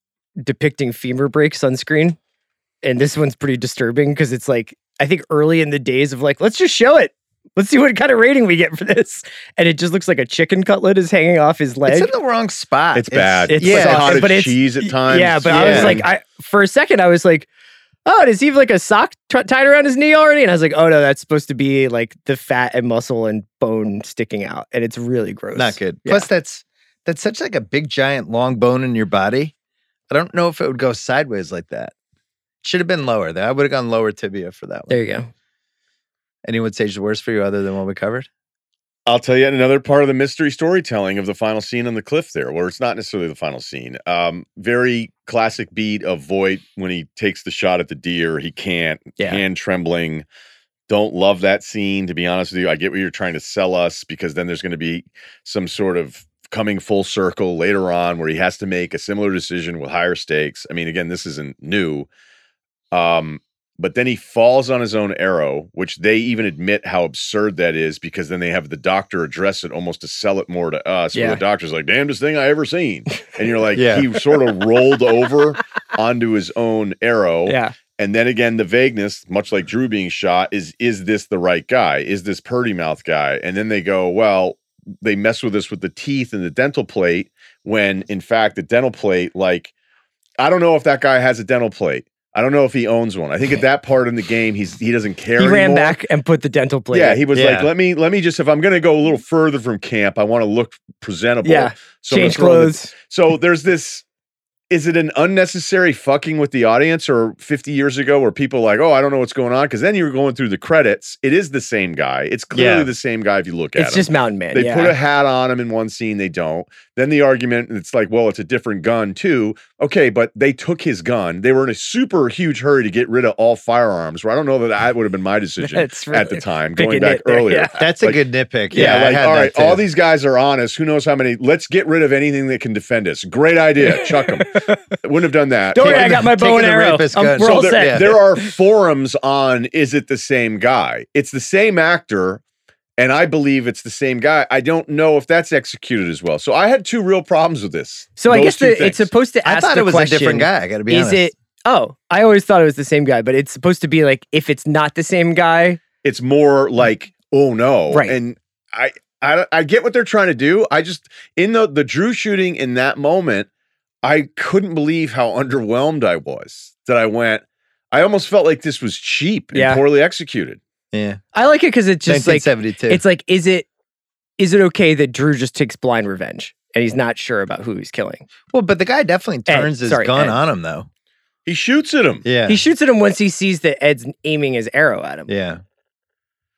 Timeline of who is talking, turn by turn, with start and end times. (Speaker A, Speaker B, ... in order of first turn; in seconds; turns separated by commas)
Speaker A: 0.4-2.2, Speaker A: 2.8-12.1, Speaker B: 11.9-14.3, Speaker C: 12.9-16.1, Speaker A: 13.5-17.5, Speaker B: 15.5-16.0, Speaker A: 18.1-26.3, Speaker B: 25.6-29.5, Speaker B: 30.1-31.9, Speaker B: 32.6-35.0, Speaker A: 34.9-35.3, Speaker B: 36.5-38.3, Speaker C: 39.1-50.3, Speaker A: 49.2-49.4, Speaker C: 50.9-62.1, Speaker C: 62.9-89.7, Speaker A: 71.1-71.4, Speaker B: 73.8-74.1, Speaker A: 77.5-77.8, Speaker C: 90.4-96.0, Speaker A: 95.4-97.2, Speaker C: 96.9-104.0, Speaker B: 97.3-97.7, Speaker A: 101.4-102.9, Speaker C: 104.7-136.2, Speaker B: 112.5-112.9, Speaker A: 113.8-115.0, Speaker A: 125.6-127.7, Speaker B: 127.8-129.8, Speaker A: 133.9-134.8, Speaker A: 135.7-138.5, Speaker B: 135.8-138.1, Speaker C: 137.4-142.4, Speaker C: 143.0-149.1, Speaker A: 148.2-155.8, Speaker B: 149.4-151.3, Speaker C: 156.0-163.5, Speaker A: 157.9-158.2, Speaker C: 164.0-170.6, Speaker A: 169.5-169.8, Speaker B: 170.9-171.2, Speaker A: 171.3-173.7, Speaker B: 172.1-173.0, Speaker A: 174.4-178.3, Speaker B: 178.5-180.9, Speaker A: 179.5-180.4, Speaker C: 181.5-182.2, Speaker B: 182.2-182.6, Speaker A: 182.5-185.3, Speaker B: 185.3-185.6